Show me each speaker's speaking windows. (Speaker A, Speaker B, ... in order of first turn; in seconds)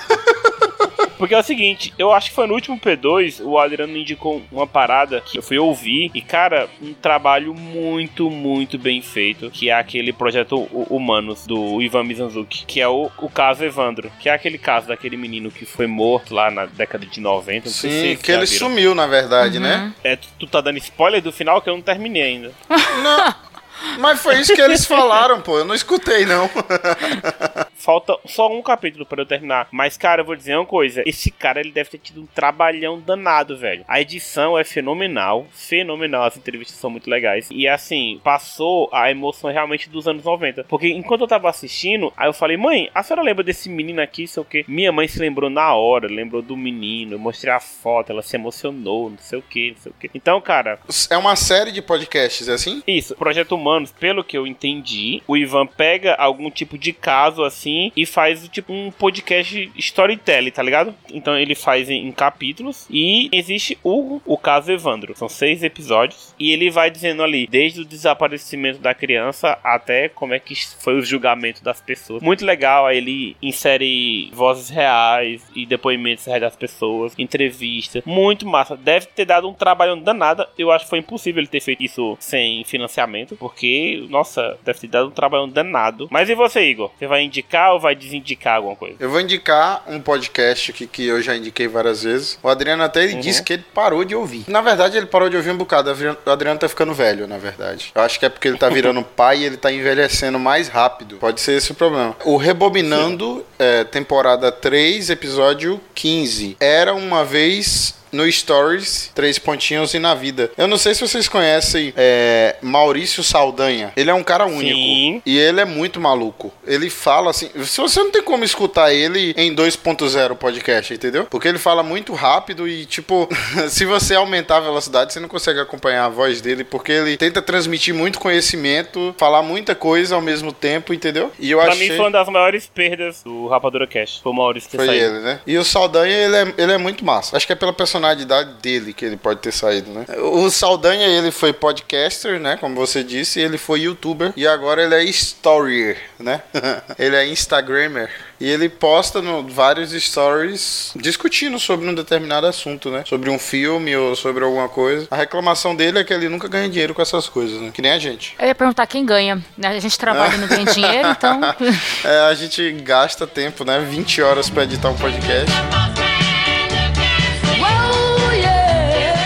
Speaker A: 1.1-18.7, 20.0-22.6, 27.8-50.8, 52.9-89.0, 93.1-93.4, 114.5-115.2, 131.6-135.1
Speaker B: 17.6-19.8, 22.9-23.3, 23.9-27.6, 50.9-52.8, 89.0-132.1, 134.7-158.3, 160.1-165.6
Speaker C: 19.4-19.9, 22.7-23.3, 158.4-161.8, 167.5-168.6